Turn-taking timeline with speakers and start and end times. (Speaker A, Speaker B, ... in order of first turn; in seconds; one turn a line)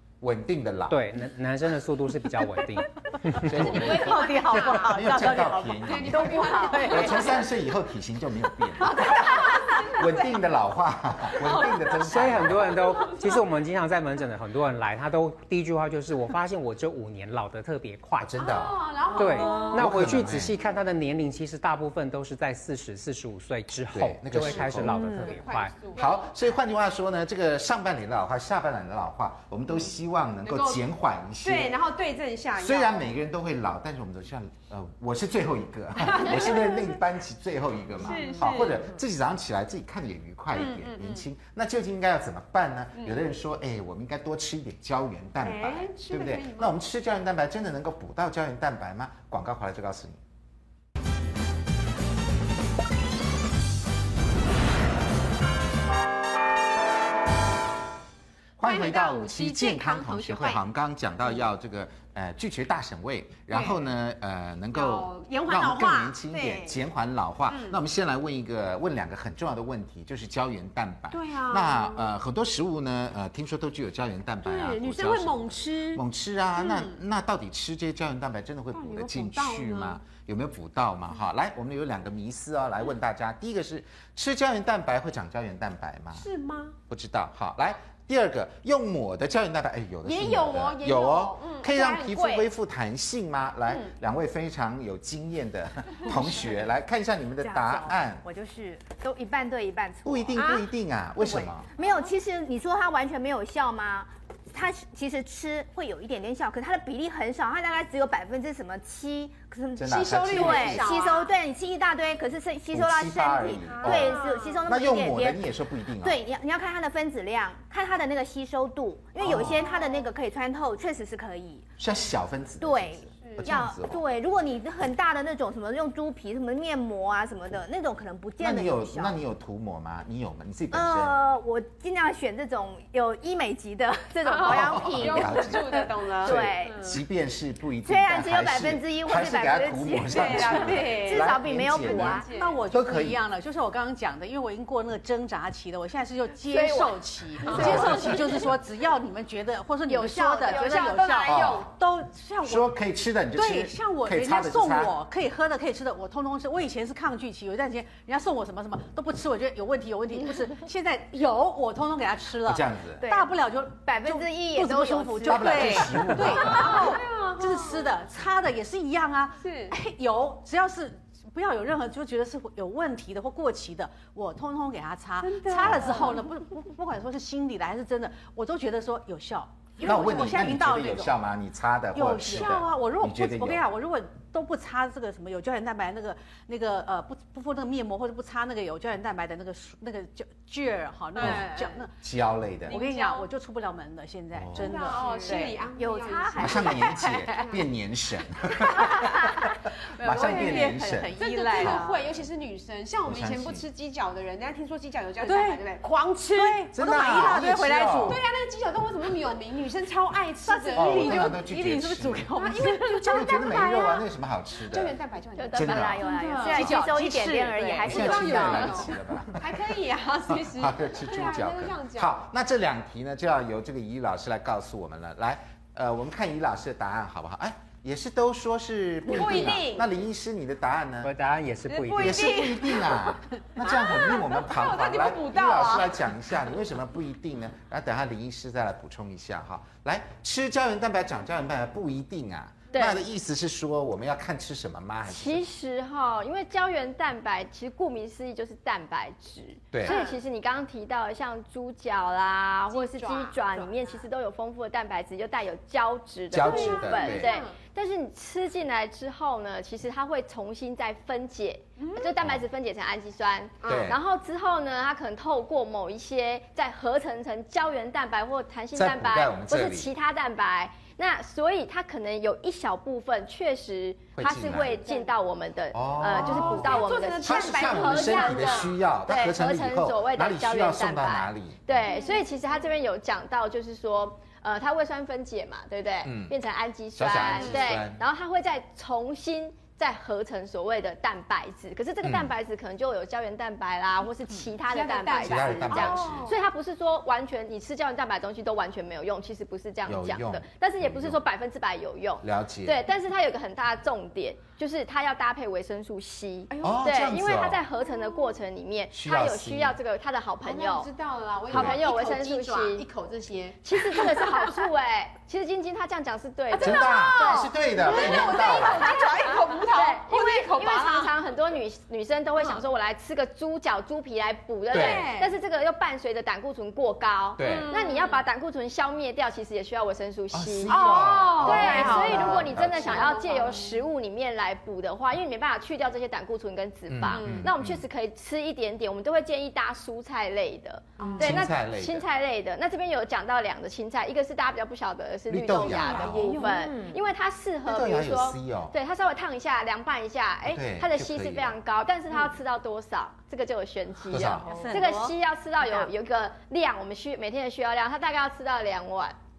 Speaker A: 0.2-1.0
Speaker B: 0.9-3.6
Speaker A: 3.3-12.8
Speaker C: 3.5-7.4
Speaker D: 3.7-4.2
Speaker E: 3.9-7.3
Speaker D: 5.8-7.4
Speaker D: 8.8-10.3
Speaker D: 11.3-13.4
Speaker B: 12.1-18.4
Speaker A: 18.2-18.9
Speaker D: 18.4-20.0
Speaker B: 19.1-25.7
Speaker A: 19.6-20.5
Speaker A: 23.9-25.2
Speaker E: 24.9-25.3
Speaker D: 24.9-26.3
Speaker A: 25.9-31.8
Speaker D: 30.4-30.8
Speaker D: 31.4-33.0
Speaker A: 32.5-50.2
Speaker D: 36.0-36.9
Speaker D: 38.0-38.9
Speaker D: 40.5-41.2
Speaker D: 45.4-46.8
Speaker A: 58.6-86.3
Speaker D: 58.6-60.6
Speaker D: 63.5-63.8
Speaker D: 64.7-66.7
Speaker D: 67.5-67.8
Speaker D: 71.1-72.1
Speaker D: 74.4-76.0
Speaker D: 76.6-77.0
Speaker D: 78.7-80.0
Speaker D: 86.1-86.8
Speaker A: 86.9-98.2
Speaker D: 90.0-92.5
Speaker E: 97.4-100.5
Speaker A: 100.0-101.7
Speaker D: 100.3-100.7
Speaker E: 101.2-115.4
Speaker A: 109.8-110.9
Speaker D: 109.8-111.3
Speaker A: 112.7-116.2
Speaker D: 113.7-114.7
Speaker E: 116.0-121.7
Speaker A: 119.2-119.7
Speaker D: 119.3-120.1
Speaker A: 121.8-124.0
Speaker E: 122.6-129.2
Speaker D: 123.2-123.6
Speaker A: 128.4-131.2
Speaker E: 130.7-136.9
Speaker D: 134.2-136.9
Speaker A: 134.4-143.2
Speaker E: 137.8-142.3
Speaker D: 140.0-142.6
Speaker C: 142.3-152.7
Speaker D: 147.4-148.2
Speaker F: 147.5-148.0
Speaker A: 147.6-148.0
Speaker E: 149.9-151.2
Speaker D: 150.2-151.7
Speaker A: 151.2-151.7
Speaker A: 152.4-154.9
Speaker C: 153.3-181.2
Speaker A: 162.4-163.0
Speaker E: 163.0-166.6
Speaker A: 165.2-166.8
Speaker D: 166.3-167.8
Speaker D: 169.4-169.7
Speaker D: 175.2-176.2
Speaker A: 175.6-175.9
Speaker A: 179.8-183.6
Speaker C: 181.9-191.9
Speaker D: 191.2-191.7
Speaker A: 191.2-191.5
Speaker A: 192.0-192.8
Speaker D: 192.7-193.3
Speaker C: 192.7-195.7
Speaker A: 194.3-194.8
Speaker D: 194.5-197.6
Speaker E: 195.7-197.2
Speaker A: 196.4-201.8
Speaker C: 198.8-199.2
Speaker D: 198.9-199.3
Speaker C: 200.0-202.1
Speaker D: 200.0-211.4
Speaker A: 203.0-203.6
Speaker C: 205.2-208.2
Speaker A: 206.7-208.2
Speaker C: 210.4-213.9
Speaker A: 210.7-212.3
Speaker D: 212.4-214.1
Speaker A: 213.1-215.0
Speaker D: 214.6-222.1
Speaker F: 215.4-216.0
Speaker A: 215.5-216.0
Speaker E: 215.6-218.9
Speaker C: 216.4-218.1
Speaker A: 217.8-231.1
Speaker D: 229.1-229.9
Speaker B: 231.0-232.5
Speaker D: 231.7-235.9
Speaker A: 232.0-245.5
Speaker F: 242.7-243.0
Speaker F: 245.1-310.9
Speaker A: 249.7-250.0
Speaker D: 249.8-250.2
Speaker D: 252.7-254.0
Speaker A: 256.3-257.3
Speaker D: 256.4-257.6
Speaker D: 261.8-262.1
Speaker D: 263.6-263.9
Speaker A: 263.6-264.0
Speaker A: 268.7-269.9
Speaker A: 274.2-274.8
Speaker A: 275.7-281.9
Speaker D: 276.1-278.7
Speaker D: 281.9-282.2
Speaker A: 286.0-286.3
Speaker A: 286.9-288.0
Speaker D: 287.3-287.8
Speaker A: 292.0-292.3
Speaker D: 294.6-296.4
Speaker A: 295.2-296.3
Speaker A: 299.9-301.2
Speaker A: 302.2-302.8
Speaker D: 306.5-306.8
Speaker A: 306.6-307.6
Speaker A: 308.9-309.8
Speaker D: 310.4-314.6
Speaker F: 311.5-312.9
Speaker A: 311.5-311.8
Speaker F: 313.6-359.1
Speaker D: 316.5-321.1
Speaker A: 316.6-319.0
Speaker A: 324.7-325.1
Speaker D: 324.7-325.3
Speaker A: 327.4-327.8
Speaker D: 327.4-328.2
Speaker A: 330.3-333.2
Speaker D: 330.7-333.8
Speaker A: 336.9-337.8
Speaker D: 337.1-337.5
Speaker D: 341.0-341.4
Speaker A: 341.2-342.1
Speaker A: 345.3-346.3
Speaker D: 345.6-346.8
Speaker C: 346.2-346.5
Speaker E: 346.4-346.9
Speaker A: 347.6-348.7
Speaker A: 350.5-351.6
Speaker A: 354.1-354.5
Speaker C: 354.4-355.1